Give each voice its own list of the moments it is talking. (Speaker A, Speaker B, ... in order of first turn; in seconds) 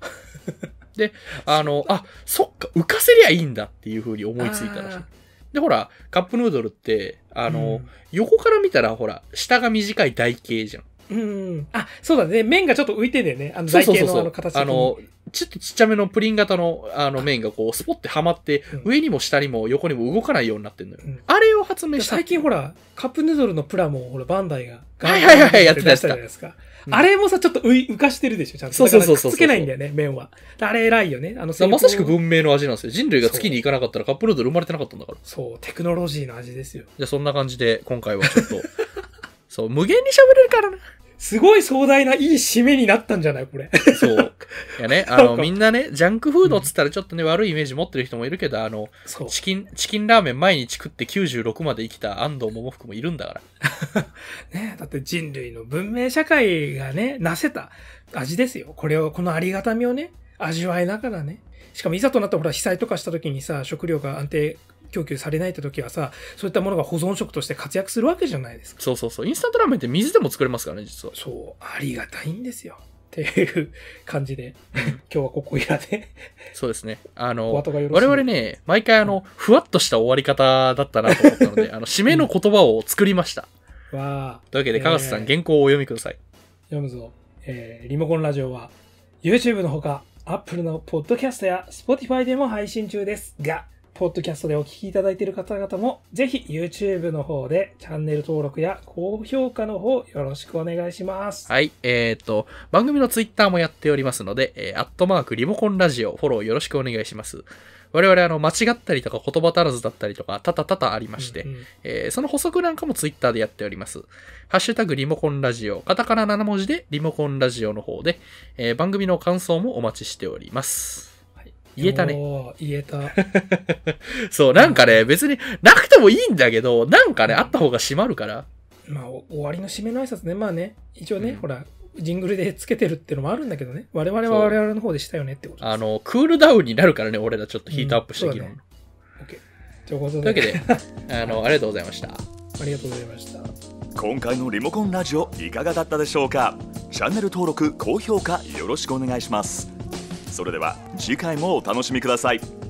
Speaker A: 0.9-10.8, 13.7-22.4, 25.0-26.2, 28.7-29.7, 31.6-35.2, 37.0-38.7, 39.5-40.8, 43.9-53.4, 68.8-71.1, 76.5-83.5, 84.5-86.2, 101.5-121.1, 121.8-122.2, 123.1-128.4, 134.2-134.6, 135.6-138.6, 140.2-142.2
Speaker B: 1.5-1.9, 4.4-5.1, 7.5-7.9, 11.1-15.0, 21.9-32.2, 33.2-33.5, 35.2-36.9, 41.2-45.5, 46.4-46.7, 49.0-49.4, 53.7-68.8, 71.1-76.2, 77.5-78.2, 81.1-82.3, 83.9-85.3, 86.7-101.5, 111.2-111.7, 121.4-123.2, 124.6-125.0, 127.2-127.5, 128.9-135.8, 137.7-138.5, 139.2-141.4, 142.6-143.5
Speaker C: 143.9-149.7, 150.3-152.4